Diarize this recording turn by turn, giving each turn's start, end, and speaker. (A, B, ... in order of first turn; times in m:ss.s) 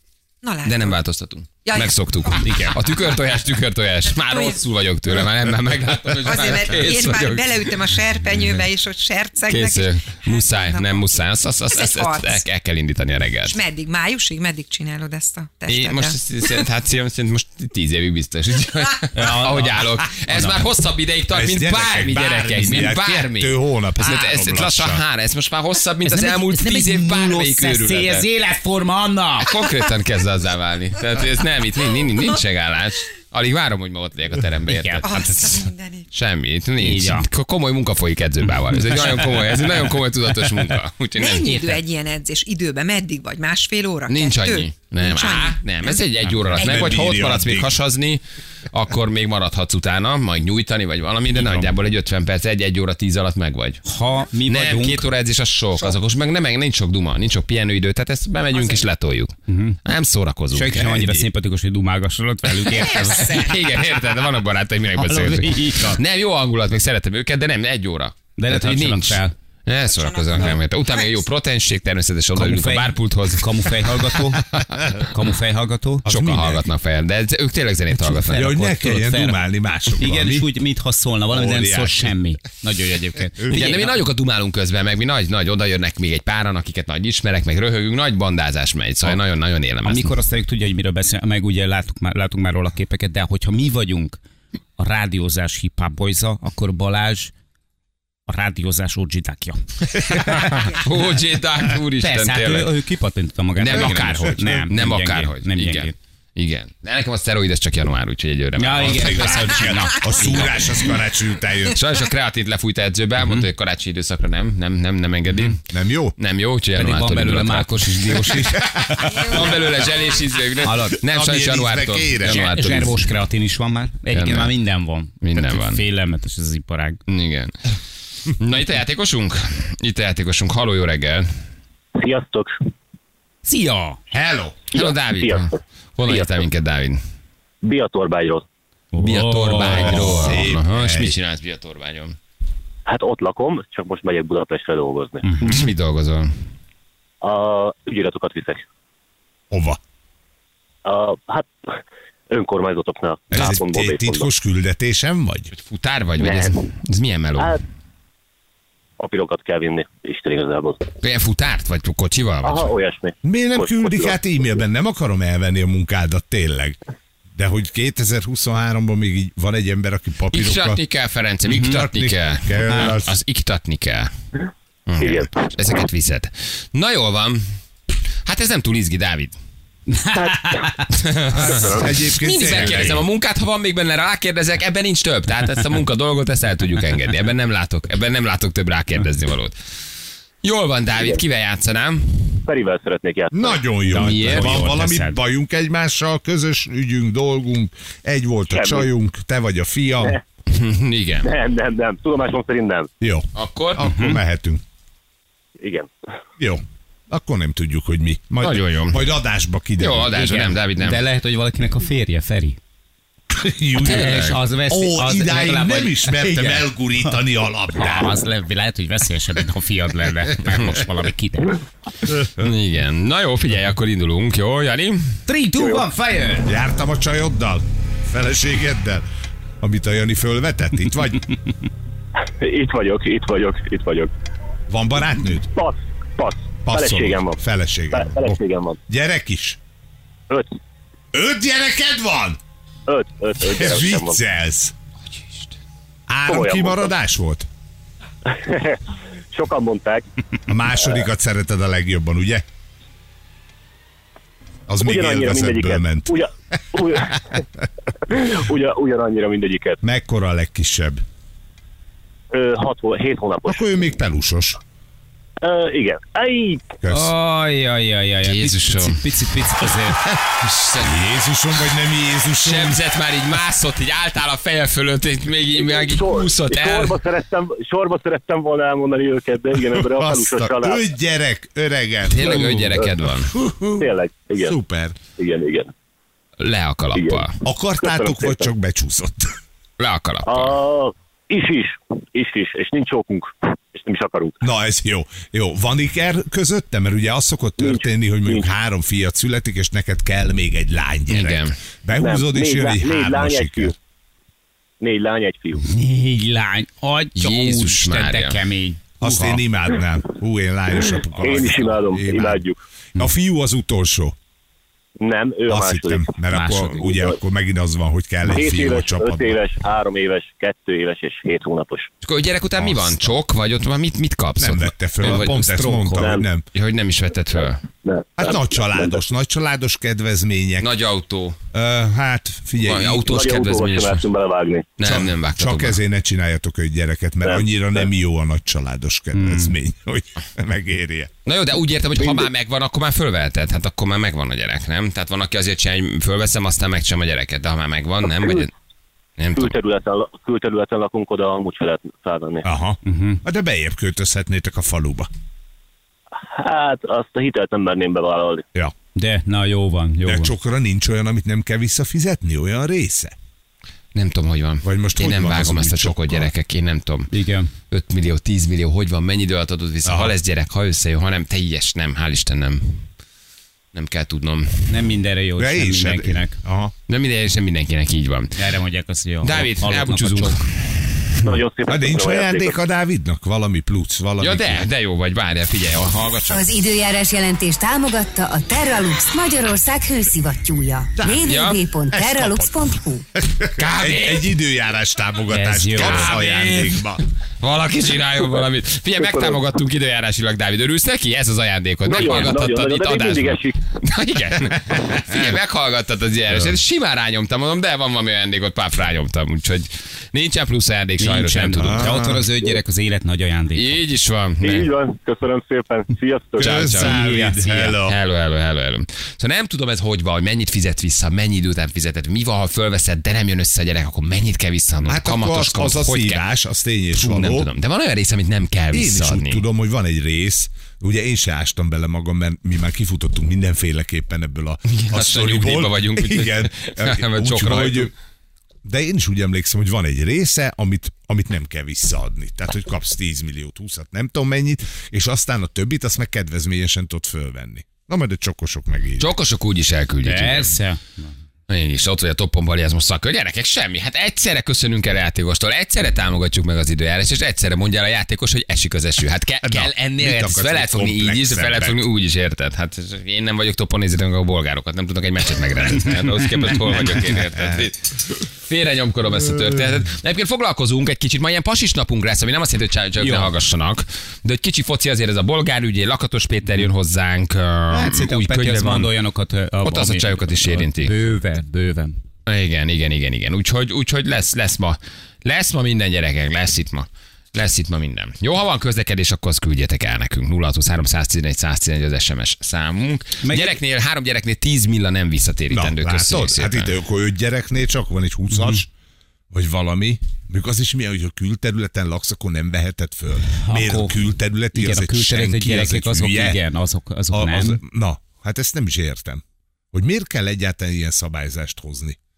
0:00.4-0:01.0 A
0:00.6-0:07.8 B
0:01.6-0:02.6 A
0:02.4-0:02.8 C
0:04.1-0:04.6 A
0:06.2-0:12.4 A
0:09.5-0:13.6 B
0:13.5-0:16.6 A
0:15.7-0:28.3 B
0:19.1-0:20.6 C
0:21.3-0:25.0 D
0:26.0-0:29.5 C
0:29.4-0:35.6 B
0:34.7-0:35.2 C
0:35.0-0:36.1 A
0:36.1-0:41.8 B
0:36.8-0:37.3 C
0:38.7-0:39.5 C
0:41.2-0:46.0 A
0:44.1-0:53.8 B
0:46.6-0:47.7 D
0:46.6-0:46.9 A
0:51.3-0:51.7 C
0:53.8-0:55.1 C
0:54.5-0:59.3 B
0:58.6-0:58.8 A
0:59.5-0:59.8 C
0:59.8-1:01.2 B
1:00.5-1:03.5 C
1:02.8-1:14.0 B
1:02.8-1:03.7 A
1:05.0-1:06.0 C
1:08.4-1:09.3 C
1:09.9-1:11.1 A
1:12.4-1:16.1 C
1:16.1-1:16.6 D
1:16.1-1:18.5 B
1:17.9-1:19.4 C
1:18.3-1:20.5 D
1:20.0-1:24.0 C
1:21.3-1:22.1 D
1:23.5-1:30.1 B
1:29.8-1:34.2 C
1:34.8-1:37.3 C
1:38.3-1:40.8 C
1:40.1-1:42.7 B
1:42.0-1:46.0 C
1:43.6-1:49.7 B
1:43.7-1:44.6 D
1:48.6-1:50.6 C
1:48.8-1:51.8 D
1:51.7-1:55.6 B
1:53.2-1:53.5 C
1:55.7-1:56.2 D
1:56.2-1:58.5 B
1:56.8-1:59.3 C
1:58.6-1:59.2 D
1:59.1-2:03.0 B
2:00.6-2:01.0 C
2:01.0-2:02.5 D
2:02.2-2:07.0 C
2:04.1-2:04.5 B
2:05.2-2:05.8 B
2:07.1-2:07.6 B
2:08.3-2:11.3 B
2:12.0-2:12.6 E
2:13.4-2:14.0 C
2:14.1-2:14.6 D
2:14.7-2:15.5 E
2:14.7-2:17.0 B
2:16.1-2:16.4 E
2:17.6-2:18.4 E
2:18.9-2:20.4 C
2:19.0-2:22.2 B
2:19.6-2:21.2 D
2:22.9-2:25.3 E
2:25.2-2:25.7 C
2:25.4-2:26.3 B
2:27.2-2:28.6 E
2:29.5-2:29.8 D
2:30.8-2:31.8 E
2:32.3-2:34.3 E
2:33.3-2:35.5 D
2:35.5-2:37.6 B
2:36.2-2:36.6 E
2:39.0-2:40.8 E
2:41.0-2:42.7 B
2:42.4-2:44.2 E
2:43.2-2:46.8 D
2:47.4-2:50.8 D
2:50.3-2:54.1 B
2:51.5-2:53.2 D
2:51.5-2:51.8 C
2:54.9-2:57.5 B
2:55.0-2:55.4 E
2:58.2-2:59.4 B
2:59.9-3:00.9 C
3:00.2-3:00.8 E
3:00.9-3:09.6 B
3:01.3-3:01.9 E
3:01.4-3:03.0 D
3:10.4-3:12.4 B
3:11.0-3:11.2 E
3:12.4-3:13.6 E
3:13.3-3:20.2 D
3:13.9-3:15.2 C
3:14.0-3:14.6 B
3:18.5-3:18.9 E
3:20.5-3:21.3 B
3:21.2-3:22.9 E
3:23.0-3:24.6 D
3:23.4-3:23.8 B
3:23.8-3:24.2 C
3:25.6-3:25.9 E
3:26.4-3:30.2 D
3:28.4-3:29.1 B
3:29.8-3:31.0 B
3:30.1-3:32.6 C
3:33.3-3:38.1 D
3:33.8-3:37.1 C
3:33.8-3:34.4 B
3:37.8-3:41.6 C
3:42.2-3:45.2 B
3:45.3-3:46.5 C
3:45.6-3:45.8 E
3:46.4-3:49.0 D
3:49.6-3:51.3 D
3:52.2-3:54.1 E
3:54.7-3:55.5 D
3:55.5-3:57.4 E
3:56.6-3:59.6 D
3:57.9-3:58.8 E
4:01.1-4:02.4 D
4:02.9-4:04.2 E
4:03.4-4:04.7 D
4:06.1-4:07.5 D
4:06.3-4:06.9 E
4:08.3-4:10.0 E
4:10.5-4:12.4 D
4:14.7-4:16.2 D
4:14.8-4:17.4 E
4:18.0-4:19.8 E
4:19.8-4:21.0 D
4:22.3-4:23.6 E
4:23.5-4:24.6 D
4:25.4-4:26.7 E
4:26.8-4:27.1 D
4:26.9-4:30.0 C
4:28.2-4:29.0 B
4:30.1-4:31.0 B
4:30.8-4:32.8 D
4:32.4-4:37.0 B
4:35.6-4:40.8 E
4:39.7-4:42.7 D
4:42.1-4:43.3 B
4:42.3-4:42.9 E
4:43.2-4:45.0 D
4:43.8-4:44.6 E
4:45.2-4:45.7 E
4:46.4-4:47.4 B
4:47.0-4:47.3 E
4:47.4-4:49.4 D
4:47.8-4:48.5 E
4:49.8-4:50.6 B
4:50.3-4:54.4 E
4:54.4-5:03.7 D
4:57.6-4:58.5 E
5:01.1-5:01.6 B
5:02.0-5:03.7 E
5:04.8-5:05.6 E
5:05.6-5:09.4 C
5:07.2-5:08.4 B
5:09.0-5:14.2 D
5:11.1-5:12.6 E
5:15.0-5:16.1 E
5:15.5-5:19.4 D
5:16.3-5:16.8 C
5:16.8-5:17.2 E
5:18.3-5:21.9 E
5:22.0-5:25.4 B
5:22.6-5:23.2 D
5:24.4-5:26.5 D
5:25.0-5:26.1 C
5:26.0-5:26.2 E
5:26.5-5:27.6 B
5:27.8-5:29.0 E
5:28.2-5:30.7 D
5:30.6-5:31.4 B
5:31.5-5:33.0 D
5:32.6-5:34.0 B
5:33.0-5:34.7 E
5:34.8-5:35.8 B
5:34.8-5:41.1 D
5:37.3-5:37.9 E
5:39.1-5:39.6 C
5:41.2-5:48.5 B
5:42.0-5:42.3 E
5:48.1-5:48.5 E
5:49.2-5:49.5 B
5:49.4-5:52.5 E
5:52.4-5:55.1 D
5:52.8-5:53.2 C
5:56.2-5:58.4 E
5:59.0-6:00.3 C
6:00.0-6:03.2 D
6:04.0-6:07.1 B
6:04.6-6:06.3 D
6:07.1-6:07.5 C
6:07.7-6:12.8 B
6:09.8-6:10.2 D
6:13.7-6:14.8 B
6:14.7-6:16.4 C
6:15.4-6:16.7 D
6:16.9-6:18.4 B
6:18.4-6:20.5 C
6:19.2-6:20.5 B
6:21.2-6:22.6 E
6:21.7-6:24.6 D
6:24.2-6:26.5 B
6:26.3-6:33.0 F
6:31.0-6:31.3 D
6:31.3-6:31.6 B
6:31.9-6:37.0 D
6:33.6-6:34.3 B
6:35.3-6:36.1 C
6:35.8-6:51.9 B
6:39.0-6:39.4 E
6:41.8-6:43.6 E
6:45.1-6:45.4 D
6:46.3-6:46.6 D
6:51.0-6:53.8 C
6:51.6-6:52.2 D
6:53.6-6:54.7 B
6:54.4-6:56.7 E
6:56.4-6:57.0 B
6:56.4-6:58.0 D
6:56.7-6:57.8 C
6:57.8-7:06.2 B
7:04.9-7:07.5 D
7:07.0-7:09.4 B
7:08.7-7:17.9 D
7:14.7-7:17.9 B
7:18.6-7:29.1 D
7:29.0-7:30.5 B
7:30.0-7:31.1 C
7:31.5-7:58.9 B
7:39.4-7:41.9 D
7:53.0-7:53.3 C
7:57.7-8:02.0 C
7:59.6-8:01.0 B
8:02.3-8:16.7 B
8:13.2-8:13.6 C
8:15.5-8:18.7 D
8:18.3-8:18.6 C
8:19.3-8:26.4 D
8:23.4-8:24.0 C
8:24.5-8:27.6 C
8:27.1-8:32.0 D